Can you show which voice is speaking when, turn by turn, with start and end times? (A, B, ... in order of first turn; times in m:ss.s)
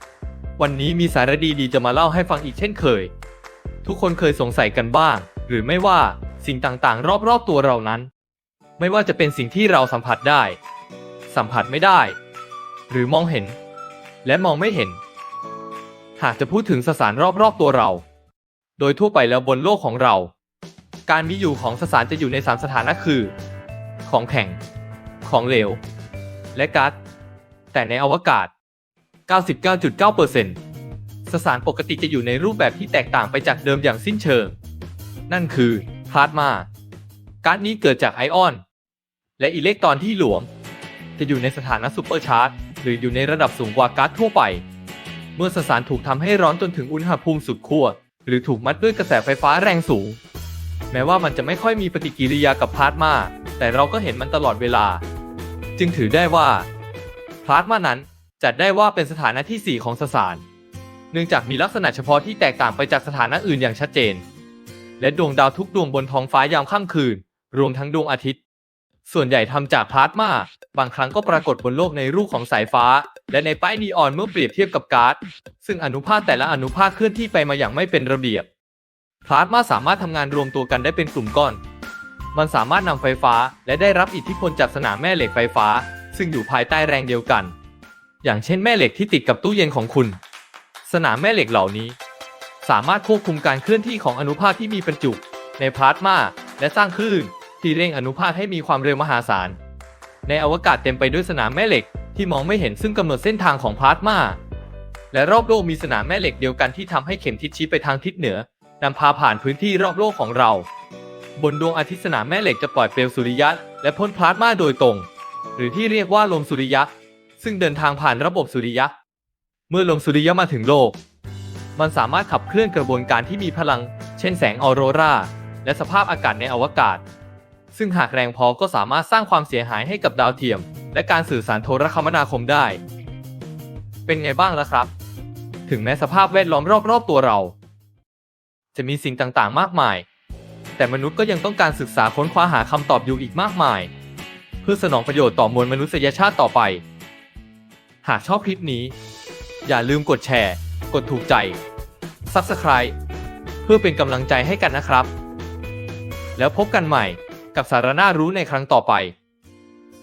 0:00.6-0:03.1 A
0:03.8-0:08.1 A
0:08.8-0:10.6 A
0:11.3-0:12.2 A
0:12.9-0:13.6 A
0:14.2-0:15.0 A
0:16.2-0:18.0 A
0:18.8-0:20.3 A
0:21.1-0:23.3 A
0:24.0-0:24.6 A
0:25.2-0:25.8 A
0:26.5-0:26.9 A
0:27.7-0:28.5 A
0:29.3-0:30.6 A
0:31.3-0:34.5 A
0:35.3-0:36.7 A
0:37.4-0:38.6 A
0:39.4-0:40.5 A
0:41.2-0:44.6 A
0:45.4-0:50.2 A
0:50.9-0:55.0 A
0:55.8-0:56.7 A
0:57.4-1:00.4 A
1:01.1-1:04.2 A
1:05.0-1:08.4 A
1:09.0-1:18.5 A
1:19.2-1:21.6 A
1:22.3-1:27.5 A
1:28.2-1:30.2 A
1:30.8-1:32.0 A
1:32.6-1:39.6 A
1:40.2-1:44.4 A
1:45.1-1:50.7 A
1:51.4-1:58.9 A
1:59.7-2:01.0 A
2:01.8-2:07.0 A
2:07.7-2:12.8 A
2:14.1-2:14.9 A
2:15.7-2:17.5 A
2:18.7-2:20.0 A
2:20.8-2:23.9 A
2:24.6-2:26.8 A
2:28.0-2:28.9 A
2:29.6-2:31.6 A
2:32.3-2:32.9 A
2:33.6-2:35.1 A
2:36.4-2:39.1 A